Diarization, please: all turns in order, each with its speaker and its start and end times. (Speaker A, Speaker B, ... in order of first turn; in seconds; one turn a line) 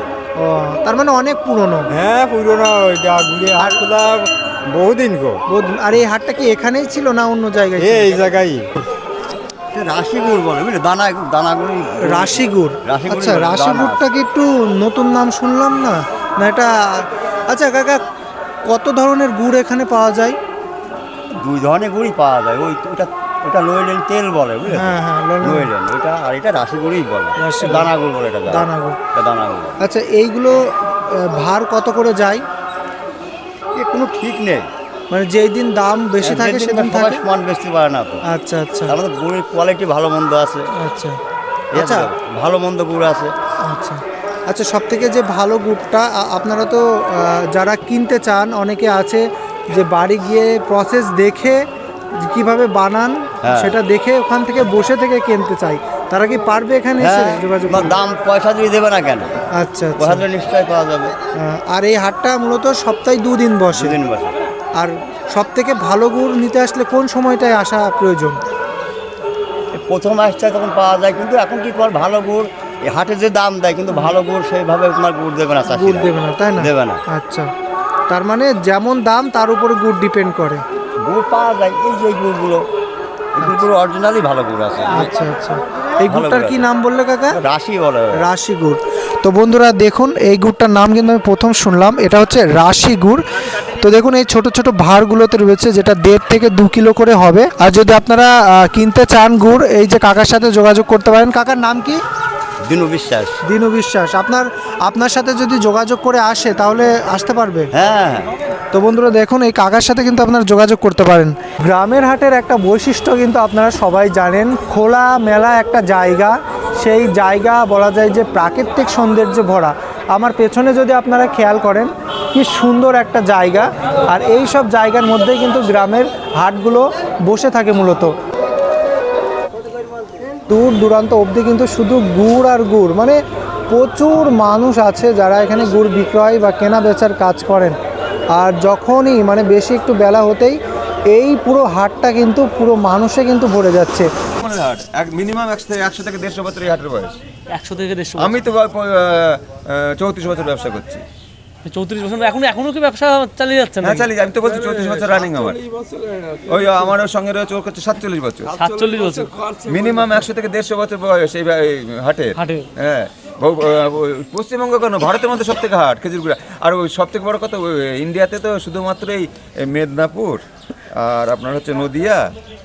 Speaker A: 0.4-1.9
Speaker B: 1.9-5.4
Speaker A: 5.5-8.2
Speaker B: 7.8-8.7
Speaker C: 9.7-14.0
Speaker A: 12.0-18.0
Speaker A: 18.7-20.4
Speaker C: 21.3-29.8
Speaker A: 24.7-25.7
Speaker A: 27.4-27.9
Speaker A: 28.5-29.0
Speaker A: 29.8-32.4
Speaker C: 33.7-34.7
Speaker A: 35.1-37.2
Speaker C: 36.2-38.2
Speaker A: 38.3-39.0
Speaker C: 38.9-40.7
Speaker A: 40.8-41.2
Speaker C: 41.7-43.3
Speaker A: 41.7-42.1
Speaker A: 43.6-58.0
Speaker C: 53.4-53.7
Speaker C: 57.0-59.4
Speaker A: 59.5-60.2
Speaker C: 60.0-61.1
Speaker A: 61.4-64.0
Speaker C: 63.7-64.4
Speaker A: 64.8-68.4
Speaker C: 69.7-77.0
Speaker A: 75.7-77.5
Speaker A: 78.1-80.6
Speaker C: 81.0-82.6
Speaker C: 83.3-85.1
Speaker A: 84.9-87.4
Speaker C: 86.0-86.6
Speaker C: 87.3-88.2
Speaker A: 88.2-102.0
Speaker C: 102.6-103.4
Speaker A: 103.5-107.7
Speaker C: 107.7-108.3
Speaker A: 108.7-128.1
Speaker A: 130.5-137.8
Speaker A: 138.3-140.6
Speaker A: 141.1-144.1
Speaker D: 144.4-147.2
Speaker E: 147.5-148.5
Speaker D: 148.2-151.0
Speaker E: 151.7-154.1
Speaker D: 153.8-155.6
Speaker D: 156.3-158.6
Speaker E: 158.5-159.4
Speaker D: 159.6-172.2
Speaker E: 162.4-162.7